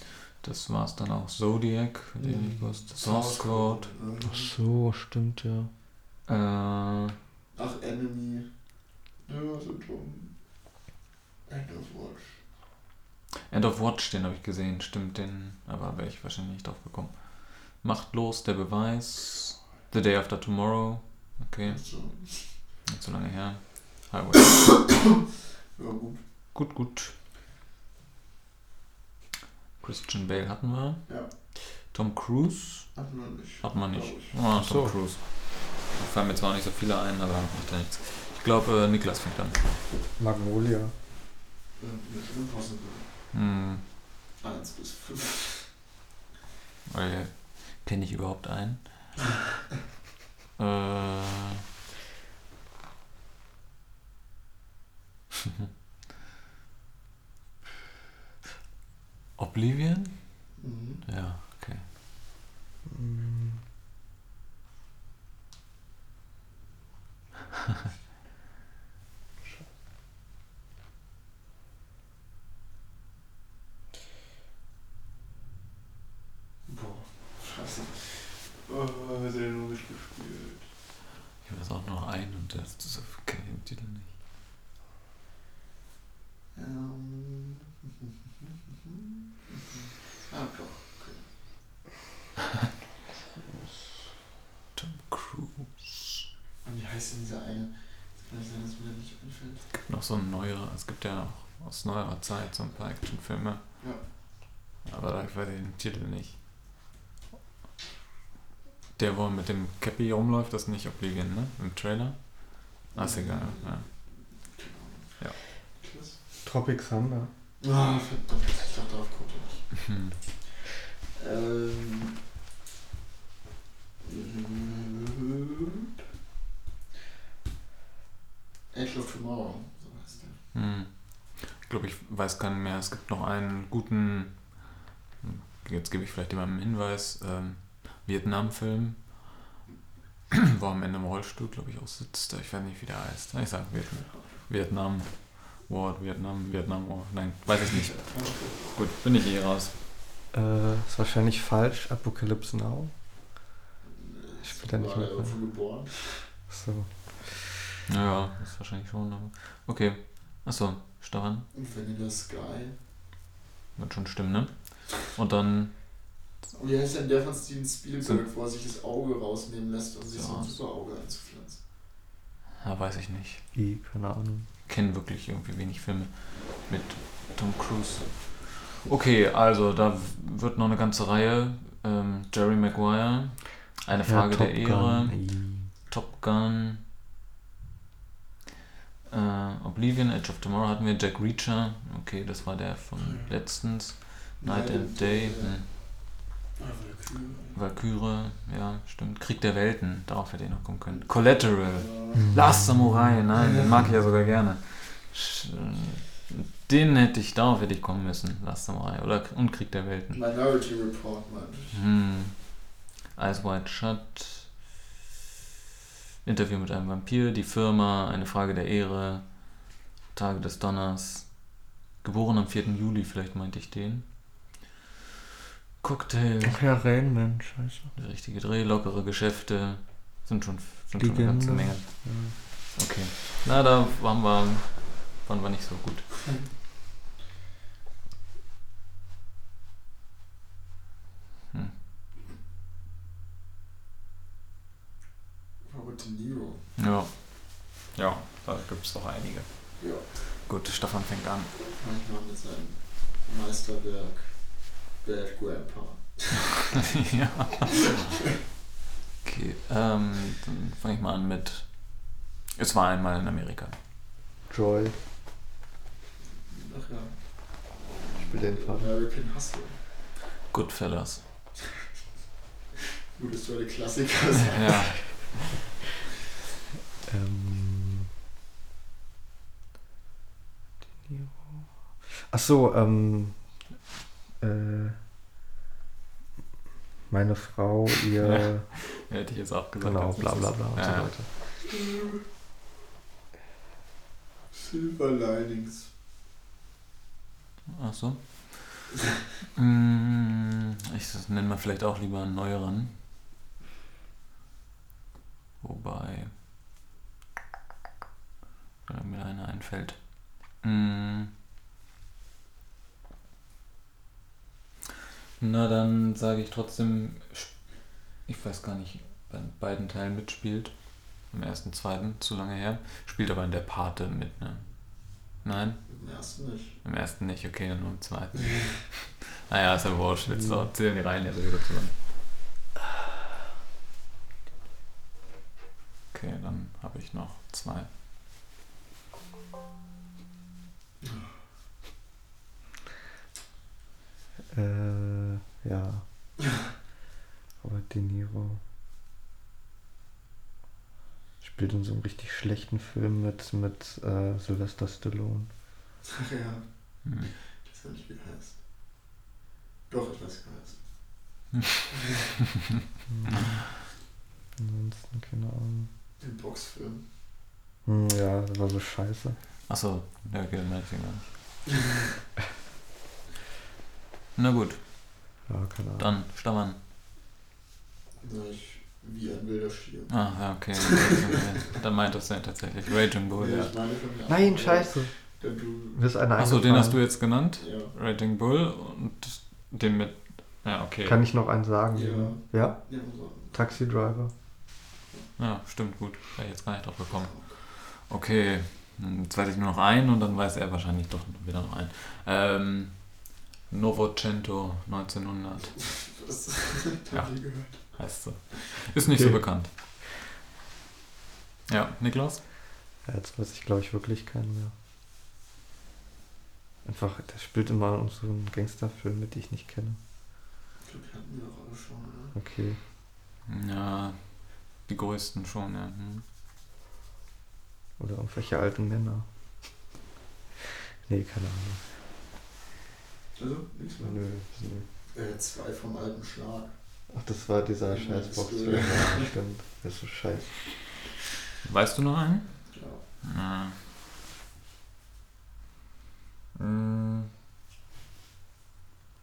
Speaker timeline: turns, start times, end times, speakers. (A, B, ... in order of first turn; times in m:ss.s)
0:00.4-0:03.9 A
0:02.2-0:04.5 B
0:04.2-0:05.7 C
0:06.3-0:07.2 A
0:07.5-0:08.5 B
0:09.2-0:10.3 B
0:11.5-0:12.4 B
0:13.5-0:21.8 A
0:21.6-0:22.5 B
0:22.8-0:24.9 A
0:24.6-0:25.1 B
0:25.7-0:26.2 B
0:26.5-0:27.1 A
0:29.8-0:33.0 A
0:32.9-0:34.4 B
0:33.6-0:39.6 A
0:34.6-0:35.0 C
0:40.2-0:40.9 C
0:41.8-0:43.0 B
0:43.3-0:43.8 A
0:44.4-0:45.7 B
0:46.9-0:49.2 A
0:50.6-0:51.6 A
0:59.4-1:00.5 A
1:00.6-1:01.0 B
1:01.0-1:01.8 A
1:02.8-1:03.6 C
1:16.7-1:20.7 B
1:21.4-1:24.1 A
1:26.5-1:31.3 B
1:33.5-1:33.8 C
1:34.8-1:36.2 A
1:36.6-1:39.7 B
1:39.7-1:43.6 A
1:44.8-1:46.4 A
1:49.0-1:53.8 A
1:52.9-1:56.2 B
1:56.4-1:57.3 C
1:57.6-1:59.7 B
1:59.7-2:00.2 A
2:01.1-2:02.2 B
2:04.0-2:05.9 B
2:08.7-2:10.4 B
2:10.5-2:19.4 A
2:20.3-2:29.7 A
2:24.0-2:24.3 B
2:27.6-2:28.7 B
2:30.3-2:32.9 C
2:33.8-2:36.3 B
2:34.4-2:35.4 C
2:36.5-2:37.5 C
2:37.9-2:41.5 A
2:41.5-2:42.8 B
2:43.8-2:45.8 A
2:46.5-2:51.6 B
2:50.1-2:50.6 A
2:52.6-2:53.4 A
2:53.5-2:54.5 C
2:54.7-3:06.8 A
3:04.0-3:05.7 C
3:09.1-3:15.7 A
3:13.0-3:13.6 B
3:14.4-3:15.8 B
3:16.6-3:17.6 B
3:17.5-3:30.2 A
3:20.9-3:22.3 B
3:22.2-3:23.2 C
3:23.4-3:23.8 B
3:30.1-3:31.8 B
3:31.7-3:34.5 A
3:36.2-3:44.5 A
3:45.8-3:46.6 A
3:46.4-3:47.9 C
3:48.0-3:56.4 A
3:51.0-3:52.4 C
4:05.6-4:06.6 B
4:06.8-4:11.5 A
4:09.8-4:10.1 B
4:11.7-4:16.7 B
4:16.7-4:18.2 A
4:19.2-4:23.8 A
4:24.5-4:25.0 C
4:26.5-4:29.8 B
4:28.2-4:28.9 C
4:30.5-4:31.2 A
4:33.1-4:35.1 B
4:34.5-4:35.5 A
4:37.0-4:38.1 C
4:41.1-4:43.4 C
4:44.4-4:45.0 C
4:47.1-4:48.7 C
4:48.2-4:51.1 A
4:49.8-4:51.3 C
4:54.5-4:55.9 B
4:57.7-4:59.0 A
4:59.5-5:02.9 A
5:05.6-5:06.4 A
5:08.8-5:10.0 A
5:10.6-5:11.3 A
5:15.4-5:17.5 A
5:18.2-5:20.7 A
5:21.3-5:25.8 A
5:25.9-5:26.8 B
5:26.8-5:31.9 A
5:36.1-5:37.9 A
5:41.0-5:41.3 B
5:44.5-5:46.0 C
5:47.6-5:48.6 C
5:51.4-5:55.5 C
5:56.0-5:56.6 B
5:57.0-5:57.3 A
5:57.2-5:58.6 B
5:59.9-6:00.8 B
6:03.1-6:03.6 C
6:04.6-6:05.9 C
6:06.2-6:07.0 B
6:07.8-6:09.4 C
6:09.7-6:11.3 A
6:14.4-6:14.8 A
6:15.5-6:16.2 C
6:16.0-6:16.8 A
6:18.2-6:20.3 B
6:20.1-6:23.7 A
6:23.3-6:26.0 B
6:24.3-6:25.1 C
6:25.9-6:27.0 C
6:26.4-6:31.2 A
6:27.6-6:27.9 B
6:31.0-6:32.9 C
6:31.9-6:33.6 B
6:33.5-6:34.3 C
6:35.4-6:45.9 A
6:37.2-6:37.5 B
6:45.8-6:48.0 B
6:47.1-6:49.7 A
6:49.1-6:49.4 C
6:51.7-6:52.4 A
6:53.0-6:54.7 C
6:56.8-7:00.0 C
7:00.8-7:02.3 B
7:02.3-7:02.8 C
7:03.5-7:04.2 A
7:04.8-7:06.2 A
7:08.0-7:09.2 C
7:11.0-7:11.8 C
7:13.4-7:14.2 B
7:14.0-7:14.8 C
7:15.1-7:16.7 B
7:17.1-7:20.6 C
7:17.9-7:19.3 B
7:21.6-7:22.7 A
7:22.7-7:23.0 B
7:23.2-7:23.8 A
7:26.5-7:27.3 A